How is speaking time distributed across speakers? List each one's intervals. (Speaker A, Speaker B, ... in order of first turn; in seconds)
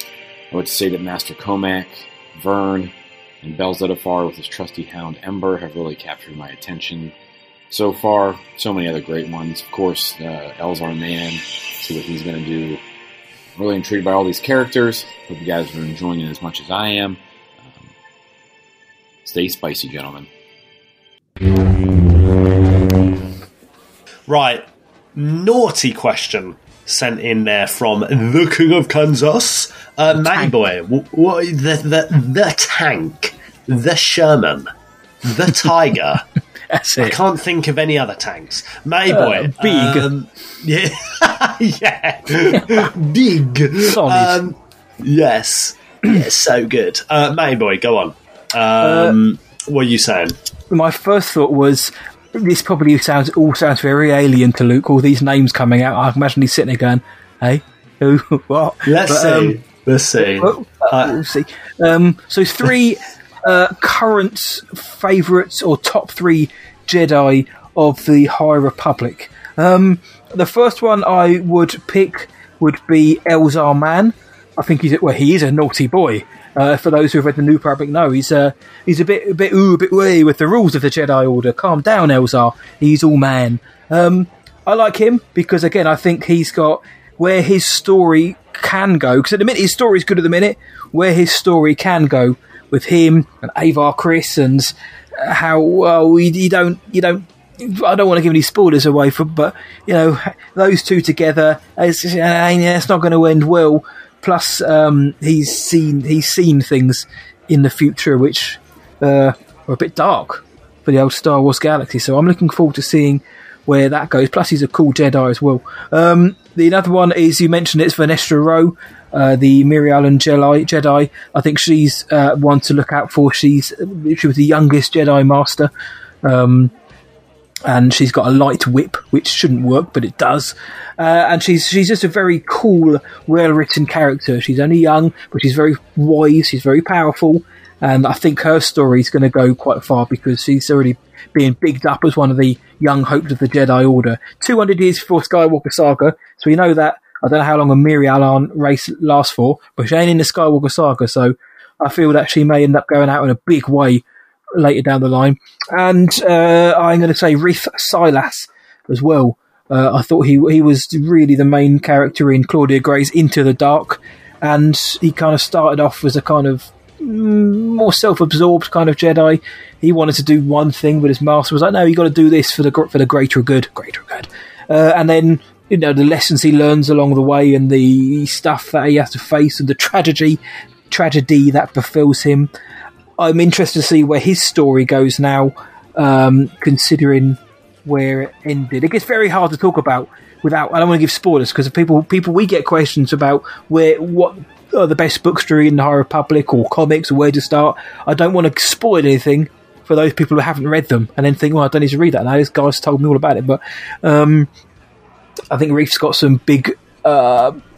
Speaker A: 0.5-7.1, 7.7-12.8, 13.6-17.9, 19.2-20.3
Speaker B: 24.3-34.7, 35.2-36.2, 37.0-50.4, 58.9-61.2
Speaker C: 30.2-30.5, 36.7-37.2, 39.1-40.1, 42.5-42.8, 43.9-44.4, 48.8-49.2, 50.7-59.6, 60.2-125.7, 126.2-126.7, 127.7-154.0, 154.6-182.5, 183.2-204.5, 205.5-207.6